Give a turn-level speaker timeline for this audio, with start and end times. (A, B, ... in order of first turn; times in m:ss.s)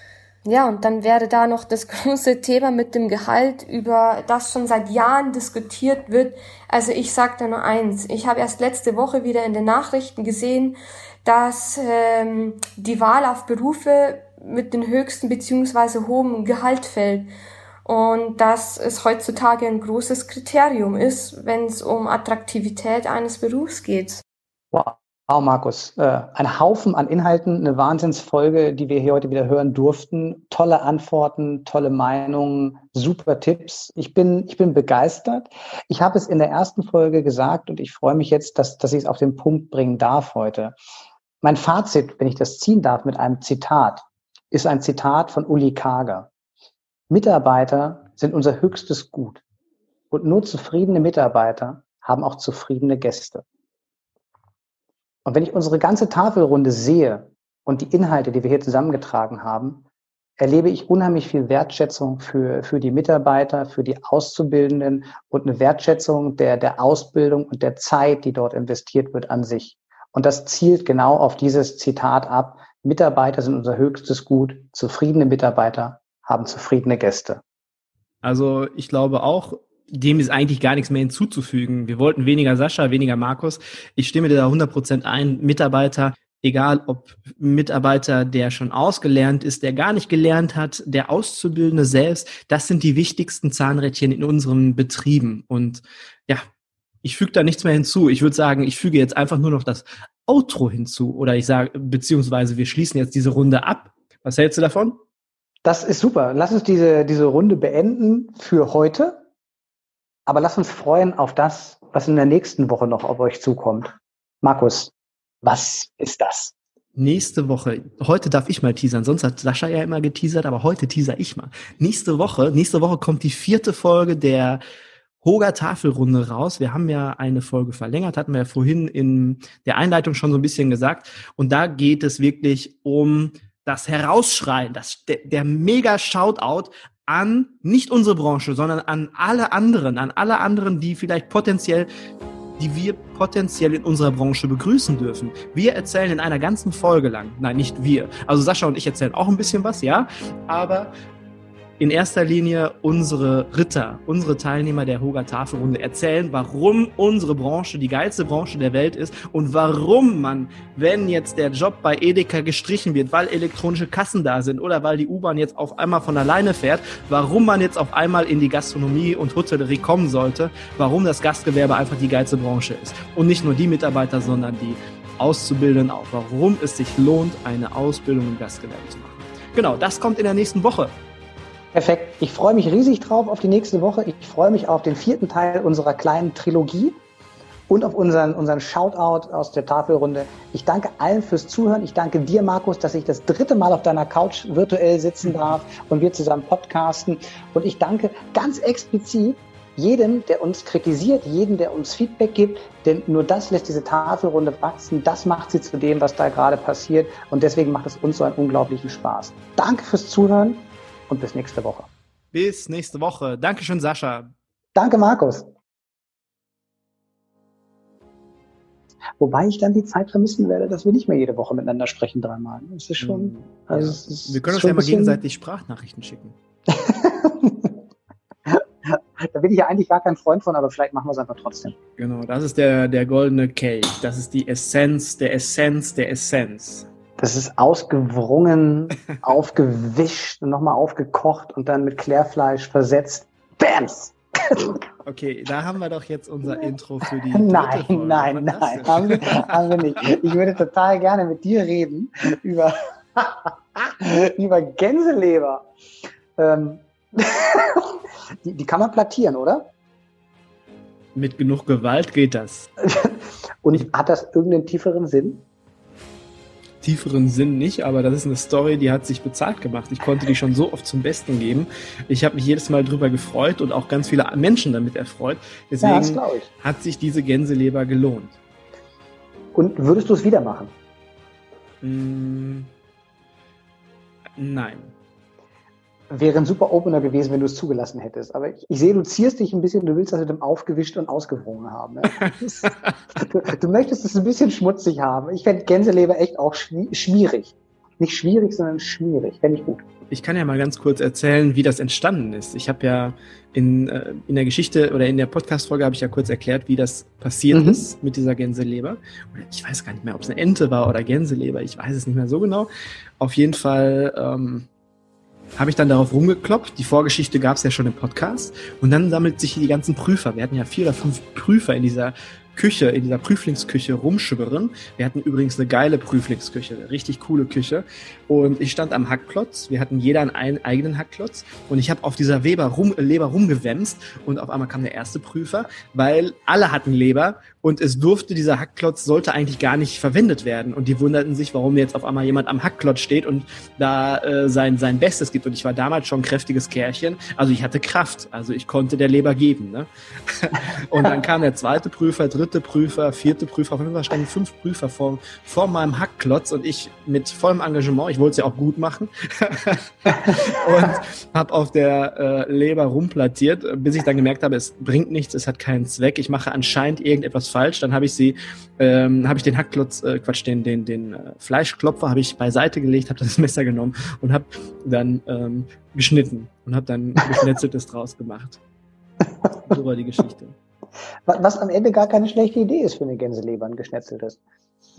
0:00.4-0:17.3 A
0:17.8-0:24.2 A
0:24.7-0:40.8 B
0:41.4-0:46.3 B
0:47.1-0:49.4 B
0:50.1-0:53.4 B
0:55.2-0:59.8 B
1:00.4-1:17.4 B
1:18.2-1:36.4 C
1:37.0-1:45.0 C
1:45.6-1:49.2 B
1:50.3-1:56.5 B
1:57.0-2:04.6 C
2:05.2-2:21.9 C
2:22.6-2:30.9 C
2:31.8-3:00.9 C
3:01.7-3:07.0 B
3:07.7-3:31.9 B
3:32.3-3:34.3 C
3:34.8-3:35.5 B
3:39.2-3:45.2 B
3:43.0-3:46.4 C
3:46.7-3:47.8 B
3:48.5-3:51.8 B
3:52.0-3:56.9 C
3:57.2-4:04.8 B
4:05.0-4:10.1 C
4:07.3-4:15.7 B
4:16.4-4:19.7 B
4:21.2-4:22.7 C
4:22.8-4:25.5 B
4:26.8-4:38.4 C
4:35.8-4:36.5 B
4:39.5-4:40.7 B
4:41.8-4:42.7 C
4:44.4-4:44.9 C
4:46.1-4:52.7 B
4:52.2-4:52.9 C
4:53.2-4:59.8 B
5:00.1-5:14.7 C
5:07.5-5:07.8 B
5:15.6-6:18.6 C
6:19.6-6:20.6 C
6:21.3-6:24.4 B